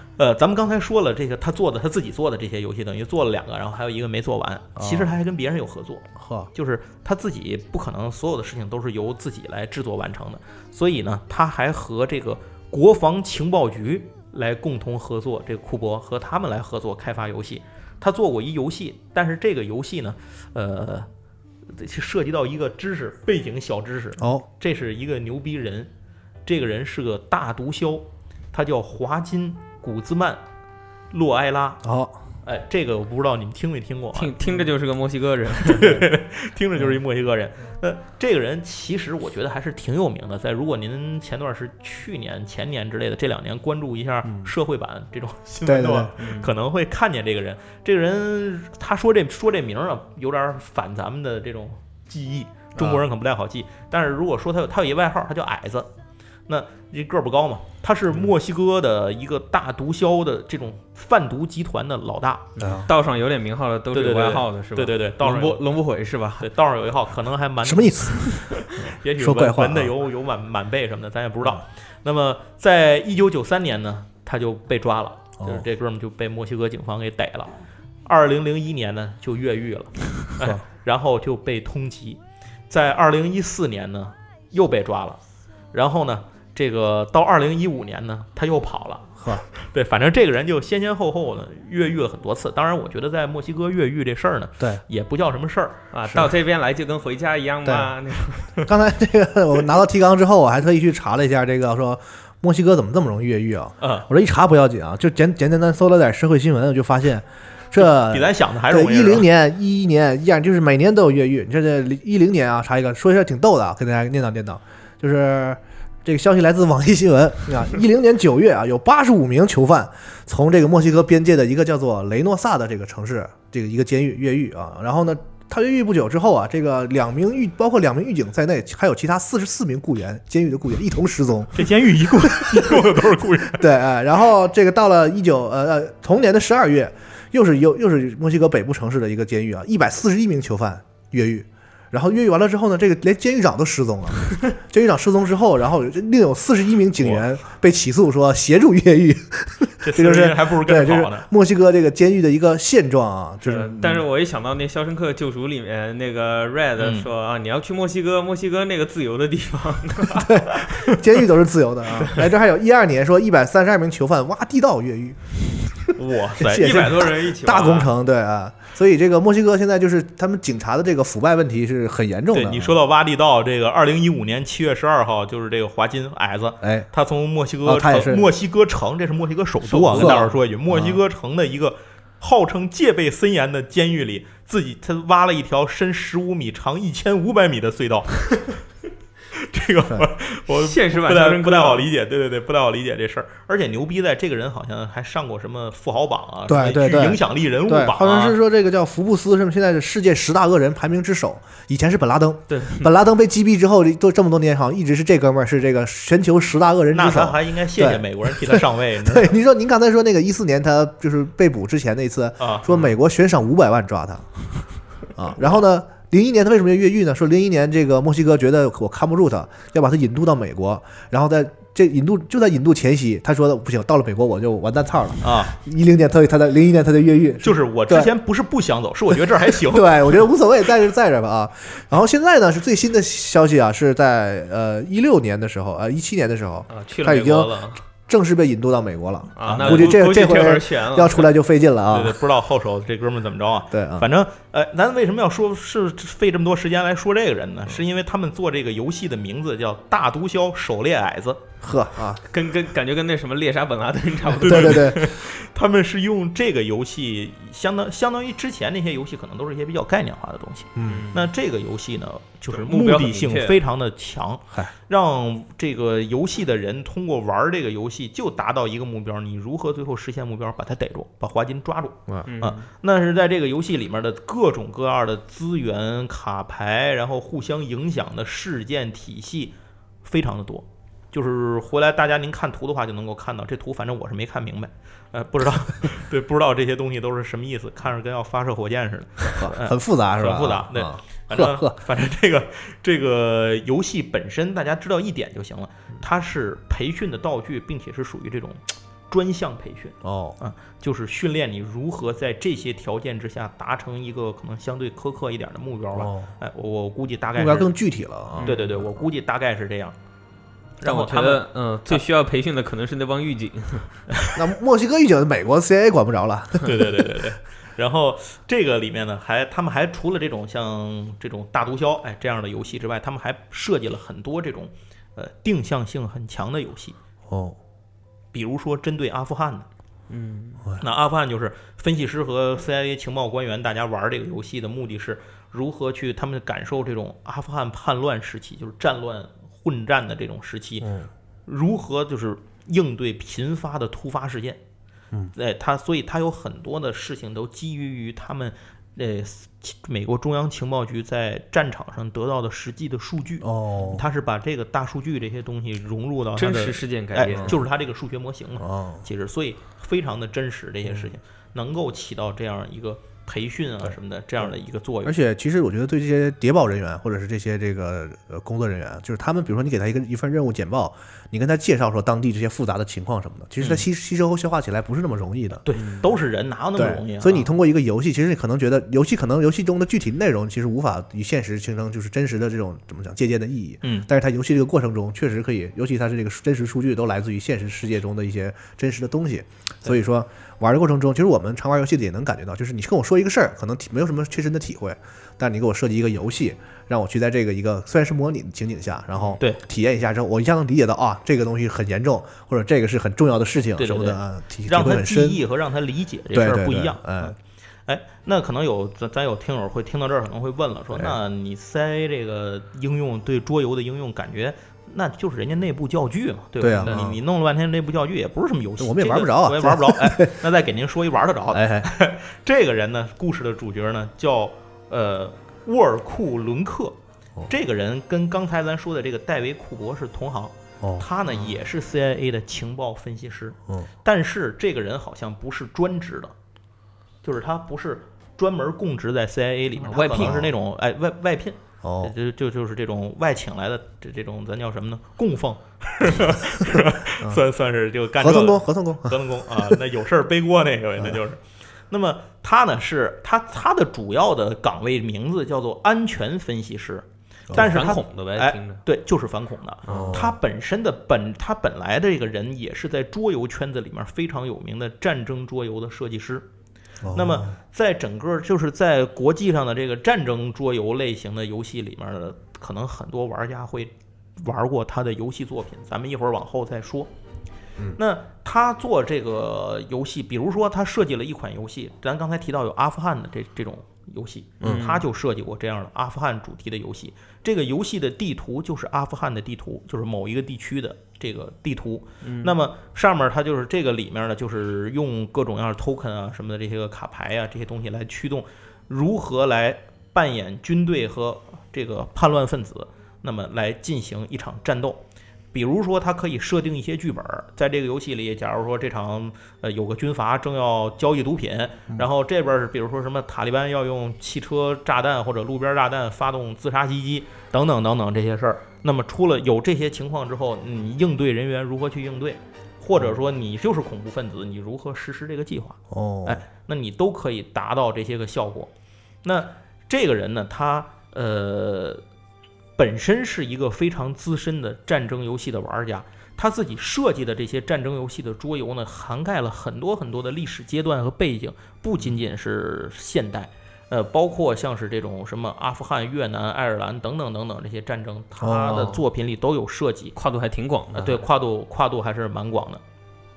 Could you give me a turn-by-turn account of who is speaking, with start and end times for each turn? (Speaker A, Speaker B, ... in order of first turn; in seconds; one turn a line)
Speaker A: 0.2-21.1
Speaker B: 4.8-5.1
Speaker B: 6.2-6.5
Speaker A: 21.7-25.9
Speaker B: 24.2-24.4
Speaker A: 26.4-30.4
Speaker A: 31.1-31.8
Speaker B: 31.8-32.2
Speaker A: 32.4-34.3
Speaker C: 34.1-36.1
Speaker A: 35.6-55.9
Speaker B: 45.6-46.1
Speaker C: 46.2-46.5
Speaker B: 52.8-53.0
Speaker A: 56.5-62.5
Speaker B: 62.6-62.9
Speaker C: 62.6-66.5
Speaker A: 63.9-65.6
Speaker A: 66.4-85.2
Speaker B: 67.6-69.9
Speaker B: 75.4-75.6
Speaker A: 85.7-95.8
Speaker B: 89.2-89.4
Speaker C: 95.9-98.5
Speaker B: 97.6-98.0
Speaker B: 98.6-133.0
Speaker A: 103.8-104.1
Speaker A: 107.8-109.3
Speaker A: 131.5-133.6
Speaker B: 133.5-154.1
Speaker A: 149.8-151.2
Speaker C: 153.4-160.5
Speaker A: 156.8-157.1
Speaker B: 160.2-165.3
Speaker A: 166.0-167.2
Speaker C: 166.4-167.9
Speaker B: 166.4-172.8
Speaker A: 172.3-188.5
Speaker B: 176.6-176.9
Speaker B: 177.6-178.3
Speaker C: 179.7-180.2
Speaker B: 179.9-181.0
Speaker A: 189.4-198.4
Speaker C: 190.5-191.9
Speaker B: 196.5-214.3
Speaker C: 202.5-202.9
Speaker A: 206.9-209.3
Speaker A: 212.4-212.7
Speaker B: 215.2-228.1
Speaker A: 225.2-225.5
Speaker A: 227.4-230.2
Speaker B: 229.5-242.2
Speaker C: 236.7-237.8
Speaker C: 239.4-241.3
Speaker A: 239.4-239.9
Speaker A: 241.9-251.4
Speaker B: 243.7-244.1
Speaker B: 251.6-252.2
Speaker C: 252.2-255.0
Speaker A: 254.4-307.7
Speaker B: 254.4-255.0
Speaker B: 260.8-261.1
Speaker C: 260.8-261.3
Speaker C: 262.5-263.6
Speaker C: 272.3-272.7
Speaker B: 289.4-291.8
Speaker B: 300.0-300.4
Speaker B: 305.9-306.3
Speaker B: 307.4-309.0
Speaker C: 308.4-308.7
Speaker A: 308.4-309.9
Speaker A: 310.8-312.0
Speaker C: 310.8-314.0
Speaker B: 314.3-317.1
Speaker A: 316.6-327.0
Speaker B: 327.3-327.6
Speaker A: 328.3-329.7
Speaker C: 330.1-330.6
Speaker A: 330.8-340.9
Speaker B: 340.8-341.1
Speaker A: 341.4-344.6
Speaker A: 345.3-365.1
Speaker B: 353.4-354.0
Speaker C: 356.4-357.6
Speaker B: 358.6-359.1
Speaker B: 365.0-375.6
Speaker A: 375.6-377.5
Speaker B: 376.7-405.4
Speaker A: 383.8-384.1
Speaker A: 403.8-407.3
Speaker B: 406.3-407.4
Speaker A: 407.9-427.0
Speaker B: 410.9-411.2
Speaker B: 416.6-417.2
Speaker B: 418.8-420.4
Speaker B: 421.5-421.9
Speaker A: 427.5-436.3
Speaker B: 430.8-431.1
Speaker A: 437.2-466.4
Speaker C: 439.8-440.4
Speaker B: 440.1-440.5
Speaker B: 441.8-442.1
Speaker B: 448.2-449.8
Speaker C: 457.5-458.8
Speaker C: 459.9-460.2
Speaker B: 459.9-460.3
Speaker B: 467.0-467.6
Speaker A: 467.1-477.1
Speaker A: 478.0-505.0
Speaker B: 484.6-484.9
Speaker C: 484.6-485.0
Speaker C: 492.2-492.5
Speaker A: 505.5-528.7
Speaker B: 525.9-526.4
Speaker A: 529.2-532.0
Speaker A: 532.8-550.1
Speaker B: 548.4-548.9
Speaker C: 548.6-549.0
Speaker C: 550.1-551.2
Speaker A: 550.9-552.8